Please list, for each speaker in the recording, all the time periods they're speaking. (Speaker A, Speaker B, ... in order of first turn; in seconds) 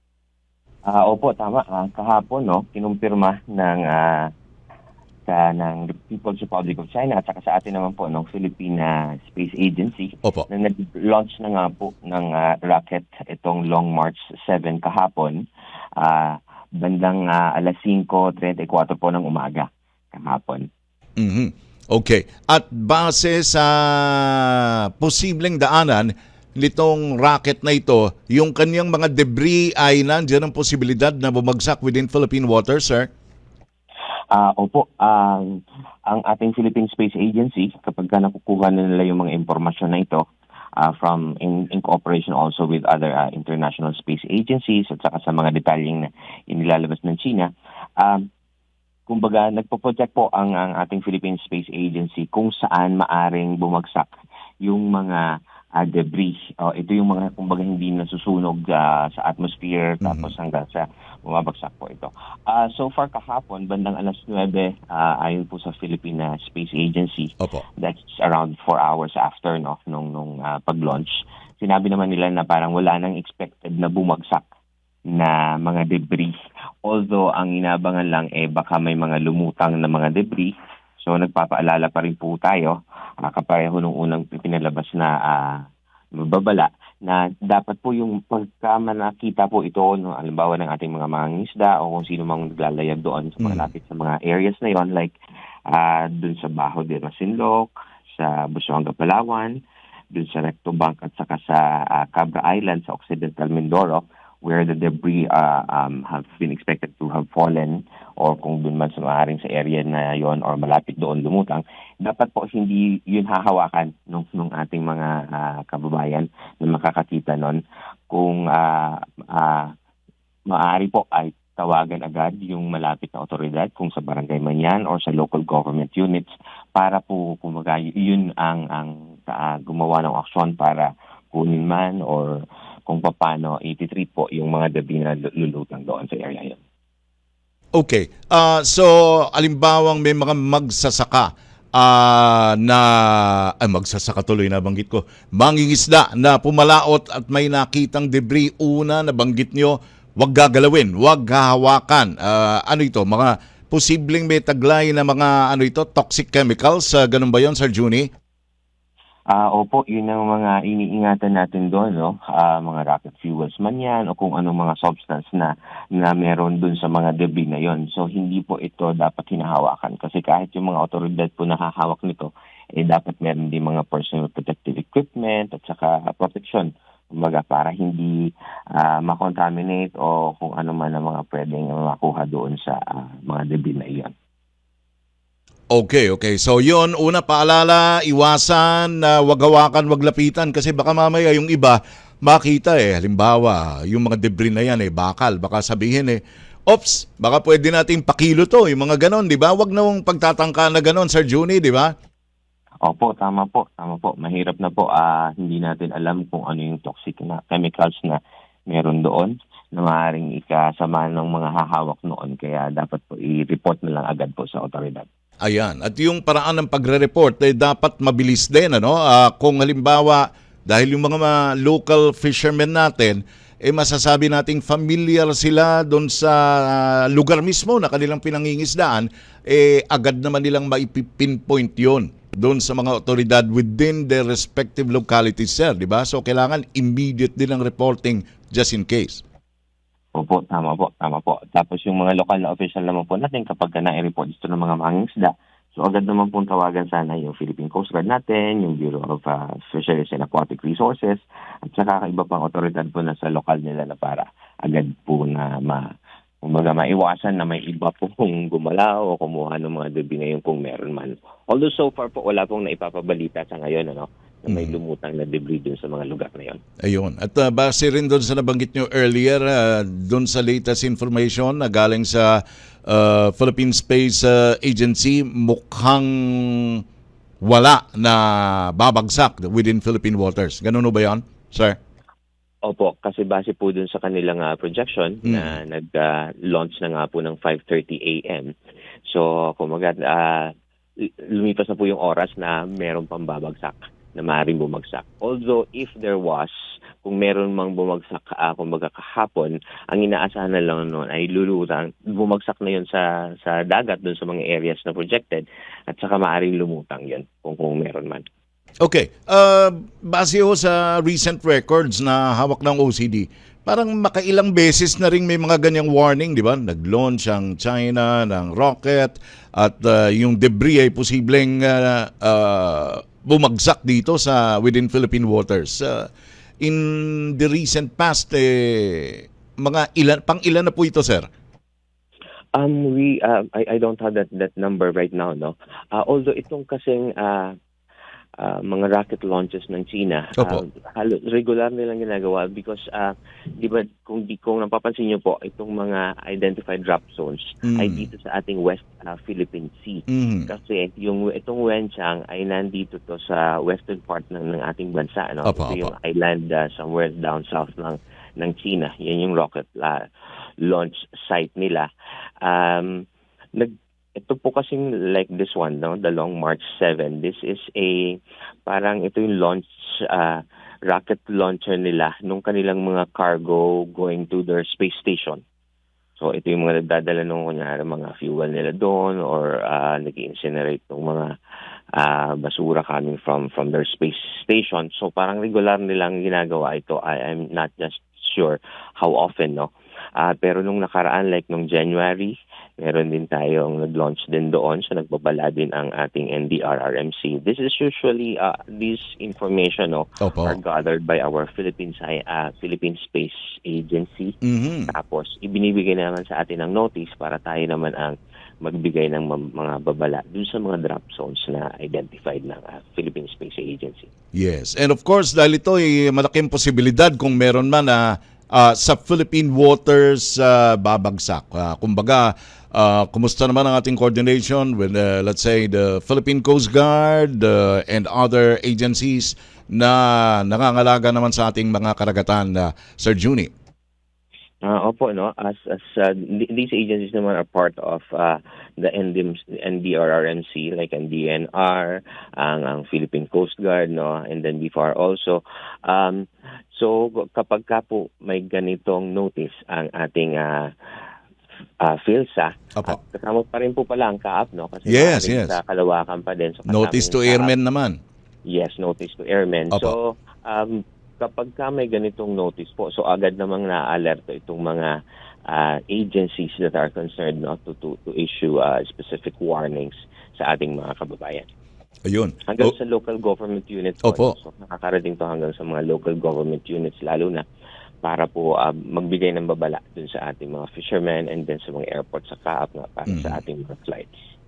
Speaker A: 0.9-4.3, 5.3-15.4, 16.0-20.7, 34.3-40.2, 40.8-48.3, 49.1-74.5, 75.1-95.2, 95.7-119.7, 120.5-136.6, 159.3-184.1, 202.8-215.1, 240.2-255.9, 256.4-266.6, 282.7-288.5, 289.1-296.5, 297.0-308.2, 332.6-337.6, 338.4-360.1, 360.6-361.9, 362.4-375.4, 376.2-381.3, 381.9-404.3, 404.9-414.1, 434.6-450.7, 451.8-457.5, 458.5-465.0, 465.5-471.5, 472.5-477.4, 478.0-484.1
Speaker B: 21.2-33.1, 60.0-60.3, 137.8-158.1, 185.7-201.9, 215.5-239.2, 264.5-264.8, 266.9-276.8, 277.4-281.8, 285.2-285.6, 308.8-326.1, 326.6-331.3, 347.6-348.1, 350.1-350.5, 355.5-355.9, 400.2-400.6, 404.4-404.9, 414.4-433.5, 454.9-455.6, 456.7-458.0, 472.1-472.7, 474.0-474.4, 483.1-483.4